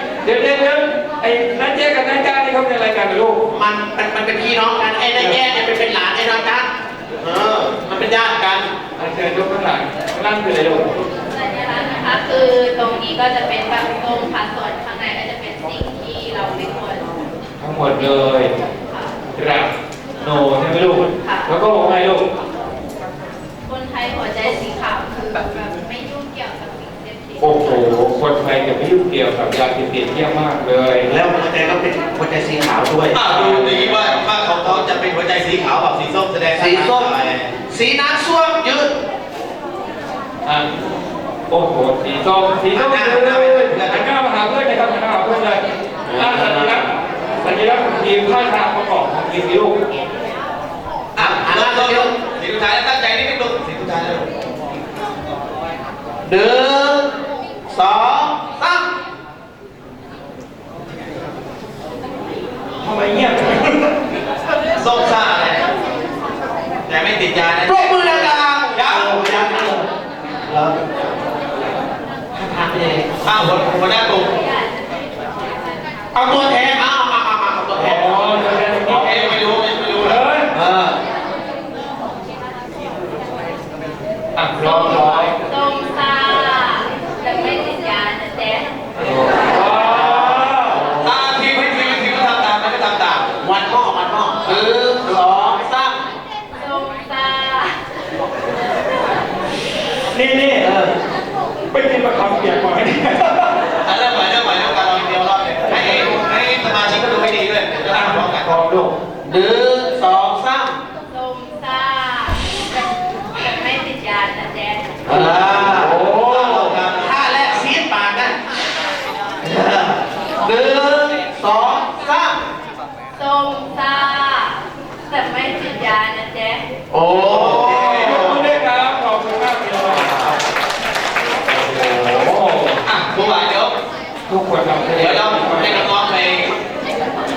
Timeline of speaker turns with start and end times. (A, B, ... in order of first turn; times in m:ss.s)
0:00.2-0:03.5 A
0:03.5-0:06.7 B
0:07.2-0:08.7 B
0:09.0-0:11.1 A
0:11.3-0:17.0 C
0:17.6-0:18.5 A
0:18.8-0:19.2 C
0:19.3-0:22.2 A
0:23.6-0:28.0 C
0:27.4-0:31.1 A
0:31.1-0:33.2 B
0:33.1-0:37.5 D
0:33.2-0:33.8 A
0:36.5-0:37.1 B
0:37.7-0:38.9 B
0:41.5-0:46.9 A
0:42.7-0:44.1 D
0:42.8-0:43.2 B
0:46.1-0:46.8 B
0:47.4-0:49.8 A
0:51.2-0:52.1 B
0:51.2-0:54.3 D
0:56.2-0:57.1 B
0:57.7-0:58.9 B
1:02.8-1:03.9 A
1:04.8-1:05.7 D
1:06.8-1:07.9 D
1:07.6-1:09.8 B
1:08.7-1:09.1 D
1:10.4-1:10.8 B
1:12.3-1:13.3 B
1:13.2-1:14.3 D
1:14.1-1:15.0 C
1:16.1-1:18.4 B
1:17.8-1:19.4 A
1:18.8-1:20.2 D
1:20.0-1:20.5 A
1:20.5-1:21.0 B
1:24.3-1:25.4 A
1:24.6-1:28.7 C
1:29.0-1:30.9 A
1:29.8-1:31.2 B
1:31.0-1:33.3 D
1:33.4-1:36.0 B
1:36.6-1:37.8 C
1:40.1-1:40.7 A
1:40.6-1:40.9 B
1:41.7-1:43.7 A
1:43.8-1:48.6 D
1:47.9-1:48.9 A
1:49.2-1:50.8 B
1:51.0-1:52.5 C
1:53.3-1:55.0 C
1:55.0-1:56.0 B
1:55.1-1:57.5 D
1:55.1-1:56.8 A
1:56.9-1:58.4 B
1:59.4-2:02.4 B
2:03.1-2:06.6 C
2:06.9-2:08.5 B
2:07.3-2:08.4 D
2:07.4-2:10.4 A
2:11.4-2:12.8 A
2:12.8-2:13.7 D
2:14.3-2:15.8 A
2:14.9-2:16.5 D